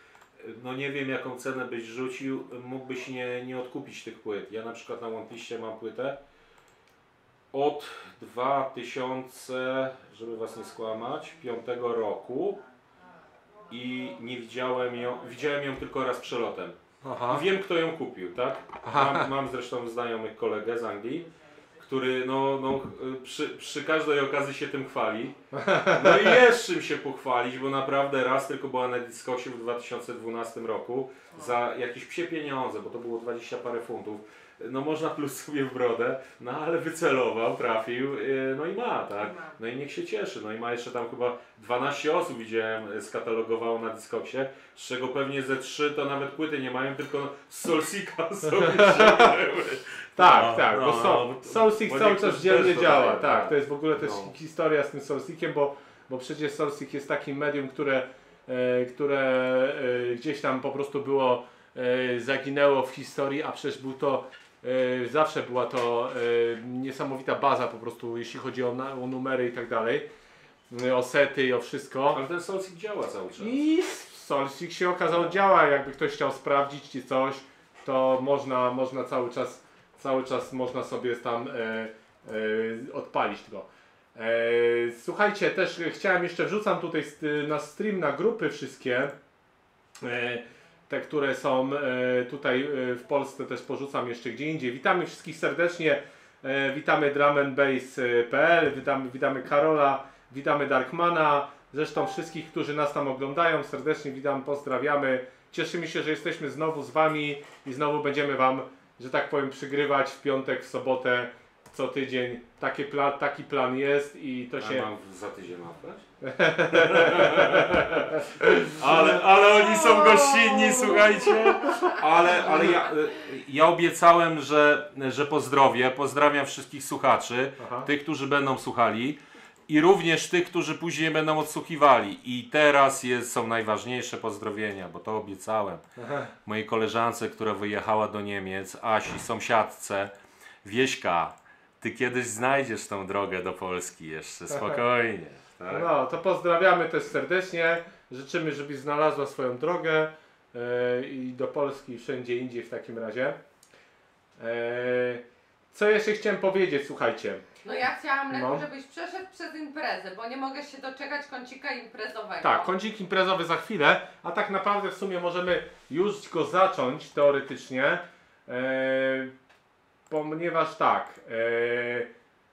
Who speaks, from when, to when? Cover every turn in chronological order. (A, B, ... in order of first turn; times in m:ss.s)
0:00.4-0:06.2 A
0:07.5-0:12.6 A
0:13.7-0:16.8 A
0:17.0-0:17.4 B
0:17.3-0:21.3 A
0:18.8-0:19.3 B
0:21.8-0:25.4 A
0:25.5-0:26.4 B
0:25.9-0:54.3 A
0:39.2-0:39.5 C
0:48.5-0:49.3 B
0:50.2-1:10.1 B
1:10.7-1:12.2 B
1:12.1-1:13.6 A
1:13.4-1:29.1 B
1:30.0-1:54.9 B
1:54.6-1:56.1 A
1:56.2-1:59.2 B
1:56.7-2:15.8 A
2:01.6-2:02.8 C
2:07.6-2:07.9 B
2:16.0-2:16.3 B
2:16.4-2:20.1 A
2:20.6-2:25.9 A
2:24.5-2:24.8 B
2:25.7-2:33.4 B
2:34.4-2:37.4 B
2:37.6-2:42.7 C
2:38.3-2:38.6 B
2:42.4-2:49.3 B
2:50.1-2:52.1 B